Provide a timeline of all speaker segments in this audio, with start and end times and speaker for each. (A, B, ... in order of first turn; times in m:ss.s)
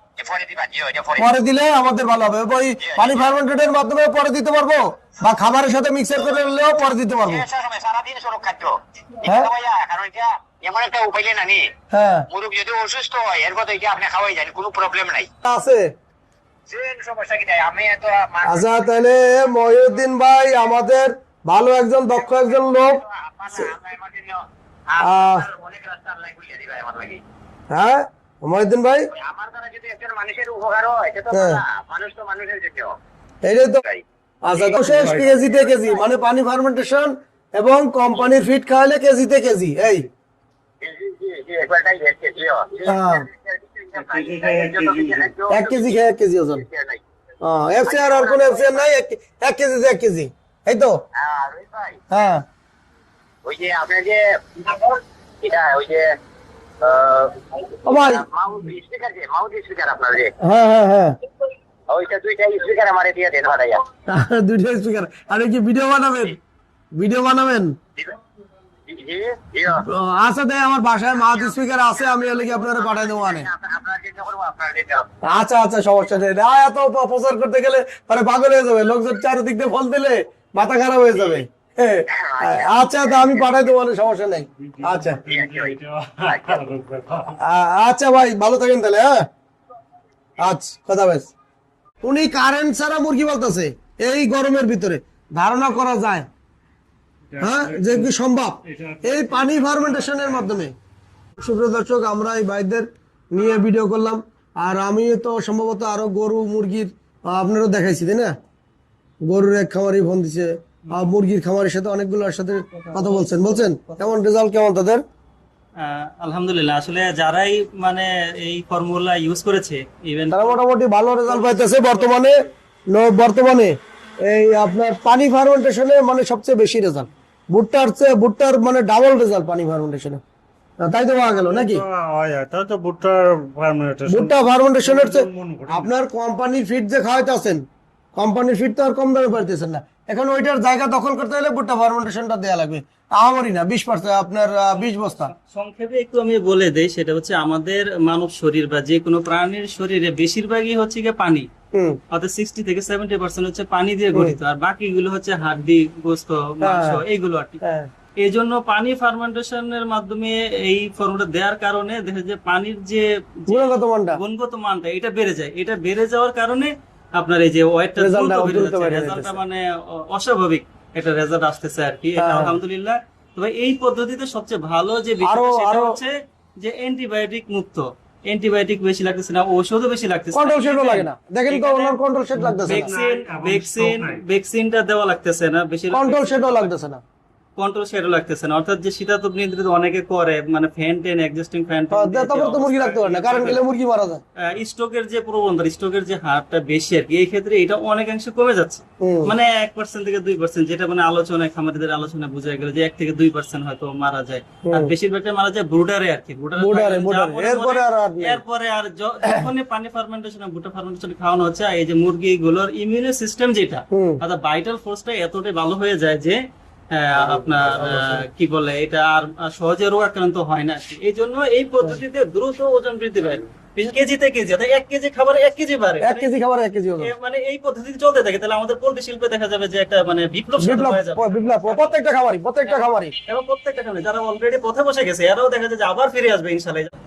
0:00.2-0:01.3 A
0:01.2-0:07.4 B
0:02.8-0:03.4 A
0:07.2-0:11.6 A
0:11.9-0:12.3 B
0:12.3-0:15.3 A
0:15.4-0:15.9 B
0:16.7-0:19.1 A
0:18.4-0:23.0 B
0:22.2-0:27.2 A
0:25.0-0:25.5 B
0:27.7-0:29.0 B
0:29.2-0:33.0 A
0:31.3-0:31.6 B
0:33.4-0:33.8 B
0:34.4-0:40.1 B
0:34.6-0:36.0 A
0:34.7-0:35.4 C
0:40.8-0:46.0 A
0:42.8-0:43.3 B
0:44.0-0:45.3 C
0:45.5-0:46.6 B
0:46.5-0:47.0 A
0:47.4-0:51.0 B
0:47.8-0:48.9 A
0:51.2-0:52.0 A
0:52.1-0:52.4 B
0:53.4-0:56.1 A
0:56.8-1:00.3 A
0:57.8-0:58.2 B
1:00.4-1:01.1 B
1:01.9-1:03.8 A
1:04.1-1:06.4 B
1:07.0-1:07.8 B
1:08.9-1:09.8 A
1:09.7-1:13.5 B
1:11.1-1:15.1 A
1:15.2-1:25.2 B
1:21.1-1:21.4 A
1:22.2-1:23.6 A
1:24.6-1:27.4 C
1:25.3-1:25.7 A
1:26.3-1:26.6 A
1:27.4-1:29.2 B
1:30.4-1:31.3 B
1:32.0-1:36.3 B
1:37.3-1:40.6 C
1:37.4-1:40.7 B
1:41.4-1:48.3 B
1:49.2-1:55.0 B
1:52.9-1:53.2 D
1:55.8-2:00.6 D
2:00.3-2:10.2 B
2:01.3-2:02.3 D
2:10.8-2:11.8 B
2:11.2-2:15.9 C
2:14.1-2:17.6 B
2:18.2-2:25.3 B
2:25.3-2:31.5 D
2:32.1-2:37.6 D
2:36.6-2:37.0 B
2:37.6-2:37.9 B
2:38.2-3:02.0 D
2:43.5-2:44.2 B
2:48.0-2:49.4 B
2:52.2-2:52.6 B
2:55.2-2:56.0 B
3:00.3-3:02.9 B
3:02.4-3:04.2 C
3:02.6-3:06.7 D
3:05.9-3:07.0 B
3:07.6-3:13.6 D
3:11.9-3:14.2 B
3:14.5-3:36.4 D
3:19.0-3:19.3 B
3:26.6-3:28.4 B
3:33.9-3:34.2 B
3:36.9-3:46.3 D
3:37.2-3:38.2 B
3:46.0-3:47.1 B
3:47.0-3:52.0 D
3:50.6-3:53.1 B
3:52.6-3:56.9 D